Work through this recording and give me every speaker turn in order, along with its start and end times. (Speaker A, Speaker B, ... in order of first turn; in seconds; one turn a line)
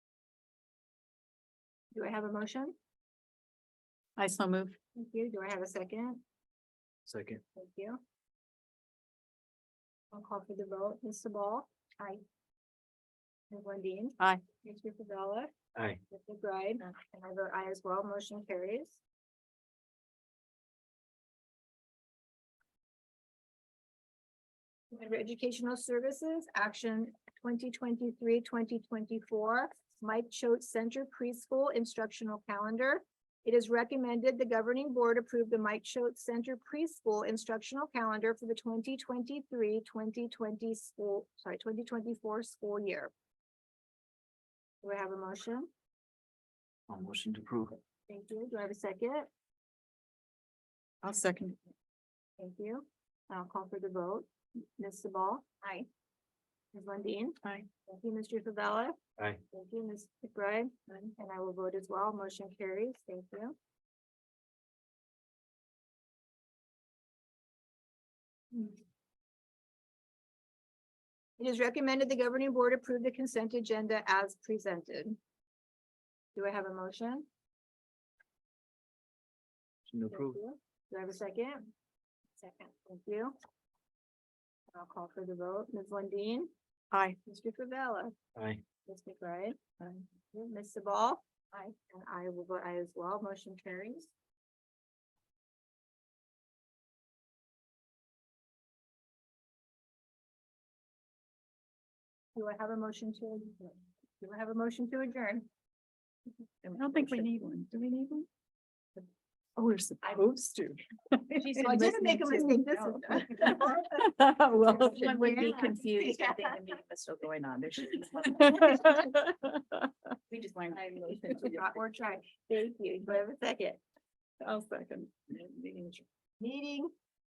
Speaker A: 1.9-2.8
Speaker B: 4.2-4.8
Speaker A: 5.0-6.2
Speaker C: 7.1-7.4
Speaker A: 7.5-8.0
Speaker A: 10.1-12.2
Speaker A: 13.5-15.5
Speaker C: 15.8-16.0
Speaker A: 16.1-19.0
Speaker A: 24.9-43.1
Speaker A: 44.8-45.7
Speaker C: 46.9-47.8
Speaker A: 48.1-49.3
Speaker B: 51.0-51.6
Speaker A: 52.4-55.9
Speaker A: 56.7-59.0
Speaker A: 59.5-63.6
Speaker A: 71.4-75.2
Speaker A: 76.3-77.3
Speaker C: 79.9-80.4
Speaker A: 80.1-81.7
Speaker A: 82.4-83.3
Speaker A: 84.7-86.5
Speaker A: 87.2-88.2
Speaker C: 88.4-88.6
Speaker A: 88.9-94.1
Speaker A: 102.3-105.5
Speaker D: 106.6-107.3
Speaker B: 106.8-108.3
Speaker B: 109.6-111.1
Speaker D: 111.4-113.7
Speaker A: 111.4-113.9
Speaker B: 114.0-115.1
Speaker A: 114.7-116.6
Speaker D: 114.8-118.7
Speaker B: 118.4-119.6
Speaker D: 120.3-121.7
Speaker A: 121.1-123.8
Speaker B: 124.5-125.2
Speaker D: 125.7-126.0
Speaker A: 126.4-126.9